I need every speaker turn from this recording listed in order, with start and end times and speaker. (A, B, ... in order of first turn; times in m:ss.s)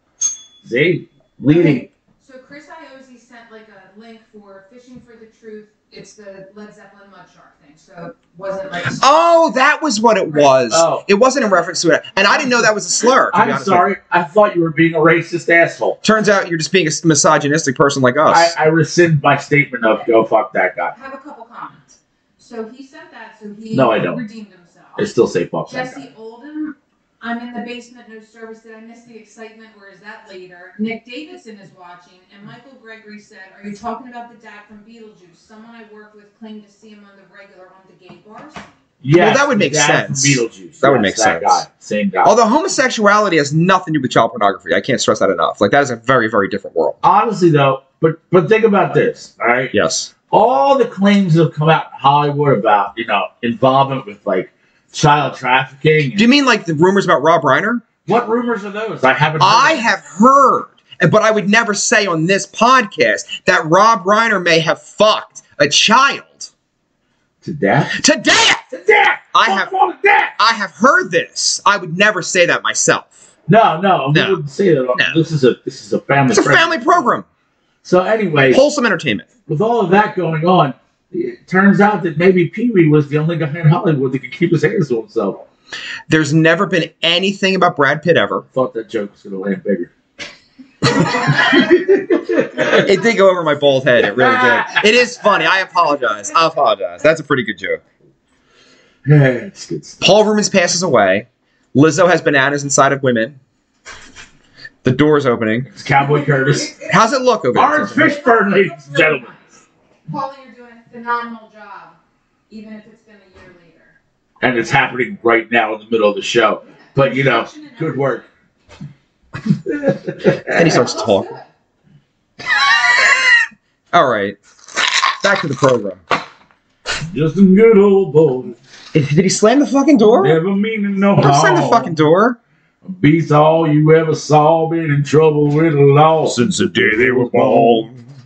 0:00.6-0:01.9 A
0:01.5-0:09.1 B
0:08.9-0:13.9 C
0:10.7-0:11.0 A
0:13.3-0:16.0 A
0:16.0-0:18.5 C
0:18.3-0:20.9 A
0:20.9-0:21.8 B
0:22.4-0:25.1 B
0:23.7-0:24.2 A
0:25.0-0:26.1 A
0:25.7-0:38.7 B
0:39.0-0:42.4 A
0:39.1-0:41.6 C
0:42.2-0:47.0 C
0:47.0-0:49.7 A
0:49.7-0:50.1 C
0:50.3-0:56.3 A
0:56.1-0:57.8 C
0:58.0-0:59.8 A
0:59.4-1:06.5 C
1:07.4-1:08.0 A
1:08.0-1:08.6 C
1:08.7-1:10.3 A
1:09.3-1:09.7 C
1:10.4-1:13.2 C
1:13.5-1:17.0 A
1:14.1-1:14.4 C
1:16.3-1:17.2 C
1:17.8-1:18.6 A
1:18.5-1:19.3 C
1:19.5-1:25.4 A
1:26.1-1:28.4 C
1:28.4-1:29.9 A
1:31.5-1:32.9 A
1:32.7-1:37.8 C
1:34.1-1:34.9 A
1:39.0-1:40.0 A
1:40.0-1:43.4 C
1:44.8-1:45.7 C
1:45.7-1:46.8 A
1:46.8-1:48.2 C
1:47.5-1:49.3 A
1:48.0-1:52.0 B
1:52.5-1:53.9 B
1:54.4-1:58.2 A
1:56.6-1:58.2 B
1:59.5-2:00.8 A
2:00.5-2:01.3 C
2:00.5-2:01.5 B
2:03.9-2:04.4 C
2:05.2-2:06.0 C
2:07.1-2:08.6 A
2:08.9-2:10.4 C
2:10.2-2:11.9 A
2:11.2-2:12.4 C
2:12.8-2:17.8 A
2:16.3-2:18.0 C